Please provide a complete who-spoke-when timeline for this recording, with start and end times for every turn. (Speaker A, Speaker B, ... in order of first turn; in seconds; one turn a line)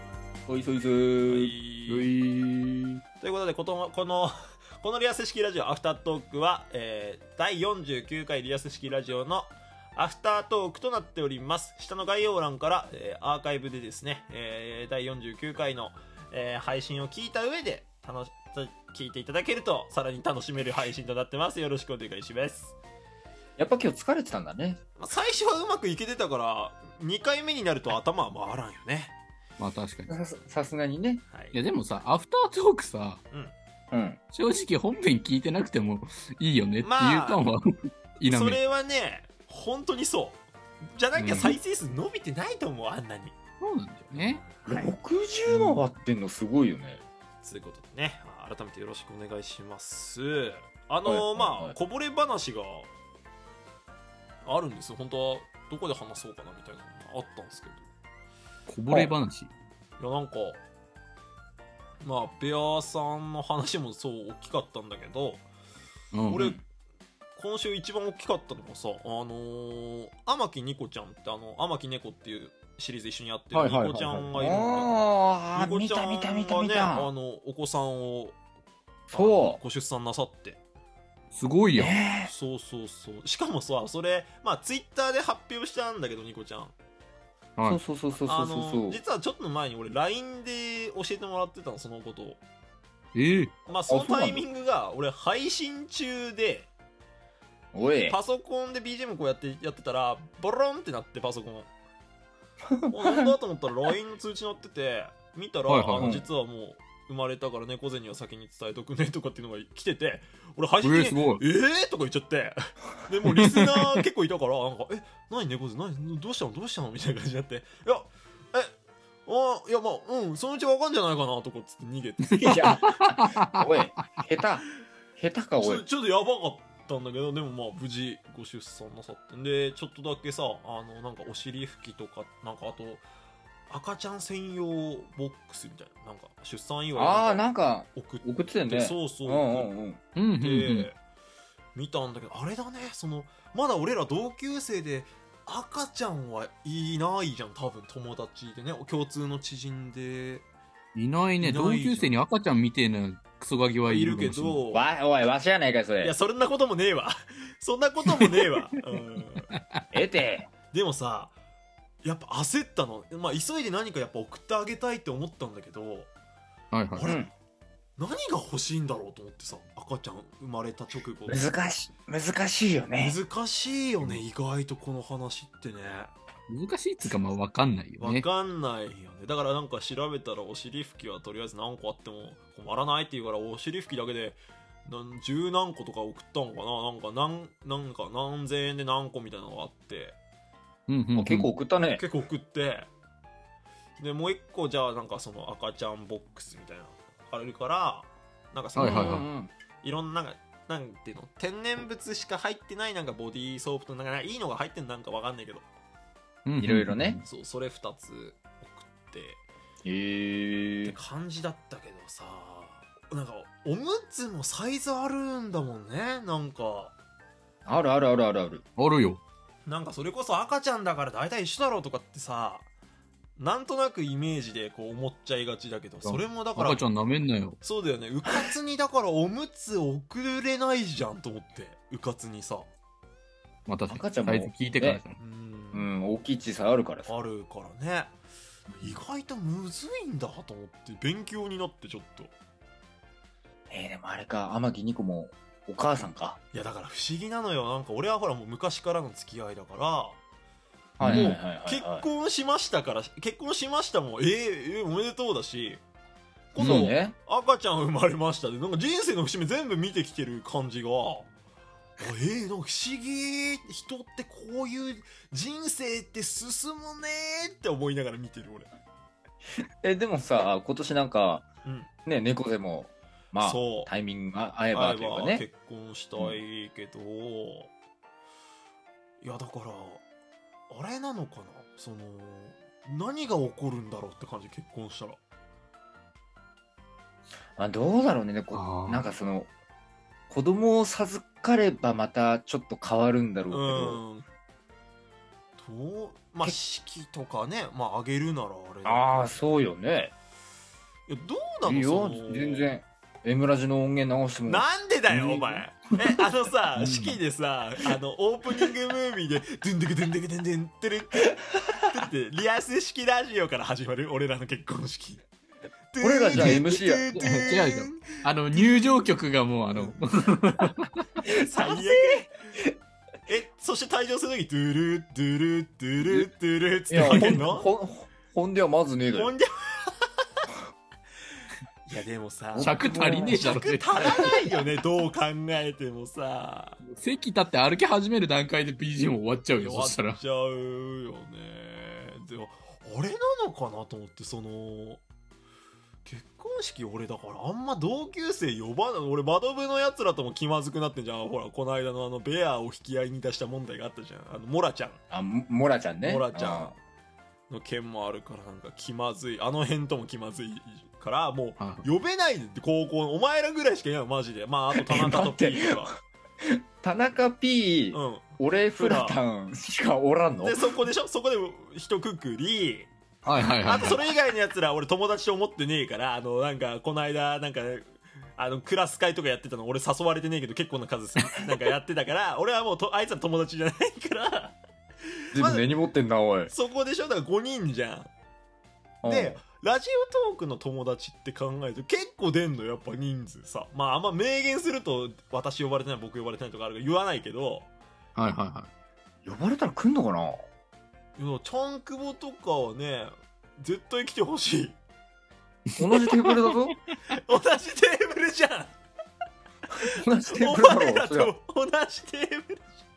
Speaker A: 0.5-1.5
Speaker B: 1.3-2.1
Speaker C: 1.9-3.0
Speaker B: 3.2-22.8
Speaker A: 23.6-24.8
Speaker B: 25.0-29.1
Speaker C: 29.6-30.1
Speaker A: 30.1-31.2
Speaker B: 31.3-31.6
Speaker C: 31.5-33.2
Speaker A: 33.9-34.2
Speaker C: 34.3-37.6
Speaker B: 36.8-37.4
Speaker C: 38.1-38.6
Speaker B: 38.2-40.4
Speaker B: 40.9-43.4
Speaker C: 41.2-41.5
Speaker A: 41.3-41.5
Speaker C: 43.6-44.4
Speaker B: 44.1-44.9
Speaker A: 44.6-47.0
Speaker C: 45.5-45.8
Speaker B: 47.4-52.9
Speaker A: 51.0-51.8
Speaker B: 54.5-57.9
Speaker C: 58.7-59.5
Speaker B: 60.0-60.6
Speaker B: 62.0-65.4
Speaker C: 66.1-66.5
Speaker B: 66.3-66.6
Speaker A: 66.3-66.6
Speaker B: 67.4-75.0
Speaker C: 73.5-74.3
Speaker A: 74.4-77.1
Speaker B: 75.5-78.4
Speaker A: 79.1-79.6
Speaker B: 79.1-80.6
Speaker C: 81.3-82.0
Speaker A: 81.8-82.3
Speaker B: 82.2-86.8
Speaker A: 87.7-89.0
Speaker B: 88.3-92.4
Speaker C: 93.2-93.5
Speaker B: 93.7-96.7
Speaker A: 93.9-94.4
Speaker A: 97.7-98.2
Speaker B: 98.1-101.7
Speaker A: 102.7-103.3
Speaker B: 102.9-118.7
Speaker C: 105.7-106.1
Speaker A: 106.0-106.3
Speaker C: 110.8-111.4
Speaker C: 113.3-113.8
Speaker B: 119.3-122.9
Speaker C: 122.4-124.2
Speaker A: 122.4-125.8
Speaker B: 125.6-133.1
Speaker B: 133.7-139.7
Speaker A: 137.0-140.0
Speaker C: 140.2-140.9
Speaker B: 140.4-141.0
Speaker B: 141.8-150.5
Speaker C: 150.9-154.6
Speaker B: 151.4-152.2
Speaker B: 153.9-154.9
Speaker A: 154.7-156.2
Speaker B: 156.0-159.5
Speaker A: 159.9-160.5
Speaker B: 160.7-161.3
Speaker B: 162.0-166.1
Speaker C: 166.7-167.2
Speaker B: 166.9-167.3
Speaker A: 167.0-167.3
Speaker B: 168.0-171.5
Speaker A: 171.3-173.2
Speaker B: 173.0-176.1
Speaker C: 176.5-178.3
Speaker B: 178.0-190.2
Speaker C: 190.9-191.5
Speaker A: 191.2-192.0
Speaker B: 192.0-192.9
Speaker B: 194.0-199.2
Speaker A: 198.8-199.5
Speaker C: 198.8-199.3
Speaker B: 199.8-205.7
Speaker C: 206.5-207.2
Speaker A: 206.6-207.2
Speaker B: 207.2-209.4
Speaker A: 209.8-210.9
Speaker B: 210.8-216.9
Speaker A: 217.7-218.6
Speaker C: 218.8-219.2
Speaker B: 219.7-222.7
Speaker B: 223.4-226.8
Speaker C: 226.0-227.6
Speaker B: 227.6-232.7
Speaker C: 233.7-235.2
Speaker A: 233.9-235.0
Speaker B: 235.2-235.9
Speaker A: 235.7-237.1
Speaker B: 237.1-238.2
Speaker B: 238.8-242.3
Speaker A: 243.7-246.4
Speaker B: 246.5-250.2
Speaker A: 251.0-252.1
Speaker C: 251.0-251.4
Speaker B: 251.1-255.8
Speaker B: 256.5-261.3
Speaker A: 256.6-257.1
Speaker C: 256.6-256.9
Speaker B: 262.0-268.7
Speaker A: 269.8-271.5
Speaker B: 271.6-271.9
Speaker A: 272.1-275.5
Speaker B: 273.4-273.9
Speaker B: 274.7-277.7
Speaker B: 279.2-280.0
Speaker B: 280.7-285.2
Speaker A: 287.6-289.5
Speaker C: 288.5-289.1
Speaker A: 290.3-294.0
Speaker B: 293.5-294.2
Speaker B: 295.6-299.4
Speaker A: 298.9-300.1
Speaker B: 301.1-302.7
Speaker A: 301.6-306.2
Speaker B: 304.5-315.2
Speaker C: 306.8-307.2
Speaker B: 315.9-319.0
Speaker A: 316.0-317.5
Speaker C: 316.3-316.6
Speaker C: 317.3-320.9
Speaker B: 321.2-322.3
Speaker A: 321.2-322.8
Speaker B: 323.3-327.7
Speaker A: 326.9-329.3
Speaker C: 326.9-327.4
Speaker B: 329.1-330.1
Speaker B: 331.9-336.8
Speaker A: 332.5-334.5
Speaker C: 332.6-334.4
Speaker C: 336.8-340.2
Speaker B: 339.6-345.0
Speaker B: 346.1-355.0
Speaker A: 355.1-356.8
Speaker B: 356.0-356.8
Speaker B: 357.5-365.9
Speaker C: 361.6-361.9
Speaker A: 364.7-370.6
Speaker B: 367.9-369.2
Speaker B: 370.4-372.9
Speaker C: 373.2-374.0
Speaker B: 373.6-384.6
Speaker A: 385.3-386.5
Speaker B: 385.4-385.6
Speaker B: 386.5-388.1
Speaker A: 389.0-389.4
Speaker B: 389.1-397.7
Speaker C: 398.2-398.7
Speaker A: 399.2-400.4
Speaker B: 401.2-404.8
Speaker A: 405.8-406.8
Speaker C: 405.9-406.5
Speaker B: 407.1-408.8
Speaker B: 409.8-412.8
Speaker A: 409.9-411.3